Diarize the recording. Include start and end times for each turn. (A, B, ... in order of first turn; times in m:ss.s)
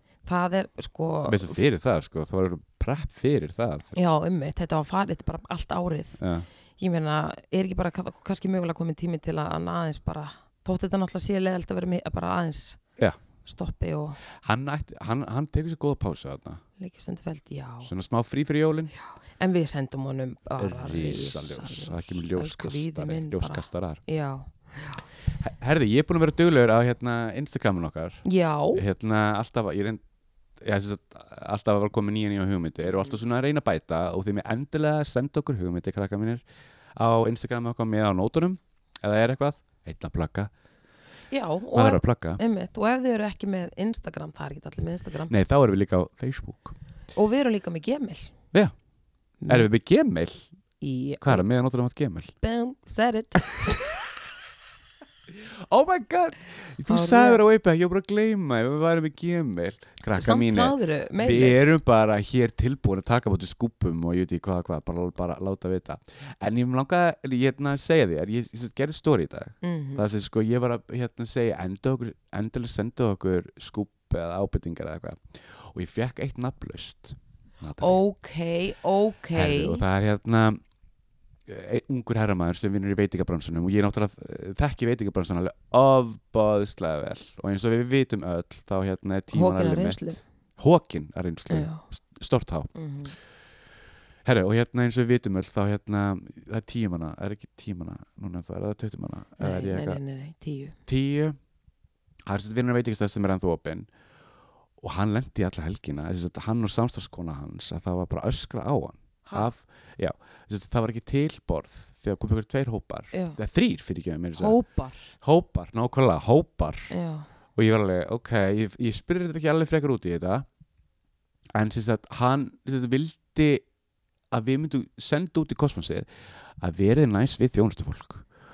0:00.3-0:01.6 A
0:01.3-0:03.9 B
0:03.9-0:06.2 A
0:06.2-0:06.5 B
0:06.8-0:12.8 A
0:13.4-0:14.2 A
0:14.4-0:16.6 B
0:16.8-0:17.9 A
0:17.8-0:18.9 B
0:19.3-0:25.1 A
0:20.6-0:24.0 B
0:25.4-0:30.0 B
0:28.2-0:28.8 A
0:30.6-0:36.4 B
0:32.8-0:33.2 A
0:37.0-0:40.5 B
0:41.3-0:45.3 A
0:41.7-0:42.4 B
0:45.3-0:46.8 B
0:47.2-0:48.3 A
0:49.4-0:49.7 A
0:49.5-0:50.5 B
0:50.8-0:51.4 A
0:51.2-0:52.3 B
0:52.4-0:53.8 A
0:55.3-1:18.0 B
0:56.9-0:57.4 A
1:00.2-1:01.6 A
1:09.6-1:10.0 A
1:17.8-1:19.8 A
1:19.3-1:20.6 B
1:21.5-1:30.1 B
1:29.3-1:30.2 A
1:30.6-1:32.7 B
1:31.5-1:31.8 A
1:32.7-1:33.2 A
1:34.2-1:40.0 B
1:39.4-1:40.8 A
1:40.9-1:41.4 B
1:42.3-1:43.9 B
1:44.8-1:54.6 B
1:49.3-1:49.5 A
1:53.1-1:53.4 A
1:54.4-1:55.1 A
1:55.2-1:56.9 B
1:56.9-1:57.3 A
1:57.6-2:00.5 B
2:01.5-2:03.6 B
2:04.3-2:08.3 B